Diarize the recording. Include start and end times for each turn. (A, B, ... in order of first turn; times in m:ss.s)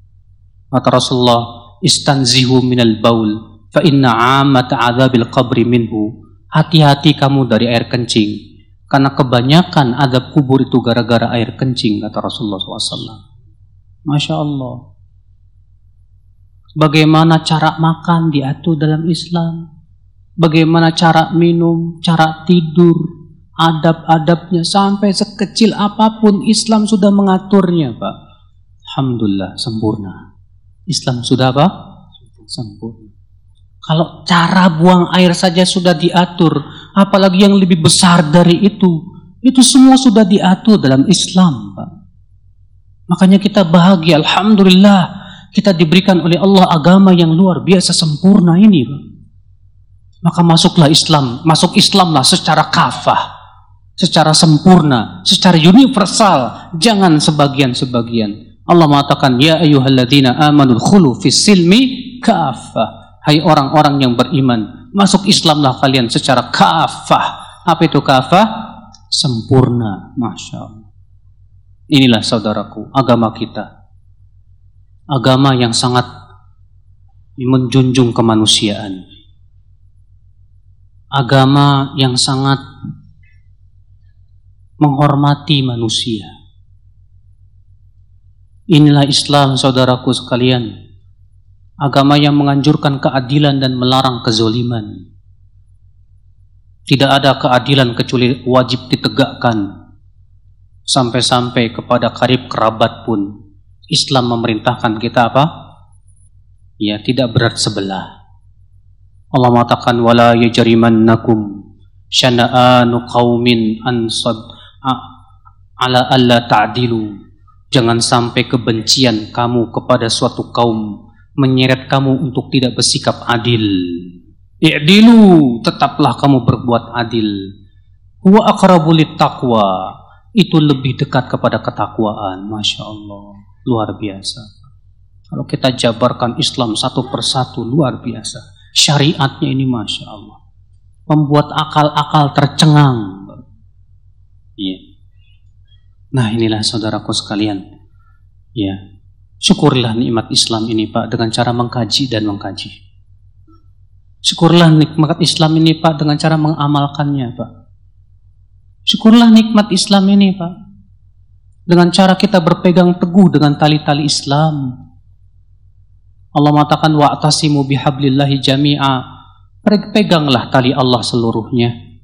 0:00.7-0:08.3 A
0:08.9-0:13.2 A
0:14.1-0:14.8 A
0:16.8-0:19.6 A
0:20.4-0:23.1 A
0:23.6-0:28.1 A
0:28.9-0:30.2 A
0:30.9-0:31.7 A
0:32.5-0:33.1 A
0:33.8-0:38.9 A
0:39.4-0:41.9 A
0:43.1-0:49.0 A
0:50.2-0:53.2 A
0:54.0-1:10.8 A
1:11.9-1:13.7 A
1:15.1-1:16.1 A
1:17.4-1:19.0 A
1:21.2-1:22.6 A
1:24.8-1:26.3 A
1:28.7-1:30.7 A
1:31.8-1:35.0 A
1:36.9-1:39.6 A
1:40.9-1:43.3 A
1:43.9-1:45.5 A
1:46.8-1:48.1 A
1:49.4-1:51.5 A
1:52.2-1:55.0 A
1:55.8-1:57.1 A
1:57.7-2:00.8 A
2:01.4-2:04.1 A
2:04.6-2:07.4 A
2:08.2-2:14.6 A
2:15.3-2:20.4 A
2:21.1-2:23.4 A
2:26.1-2:27.6 A
2:29.4-2:32.8 A
2:34.3-2:37.5 A
2:38.9-2:40.5 A
2:41.7-2:44.6 A
2:46.4-2:49.0 A
2:49.6-2:51.7 A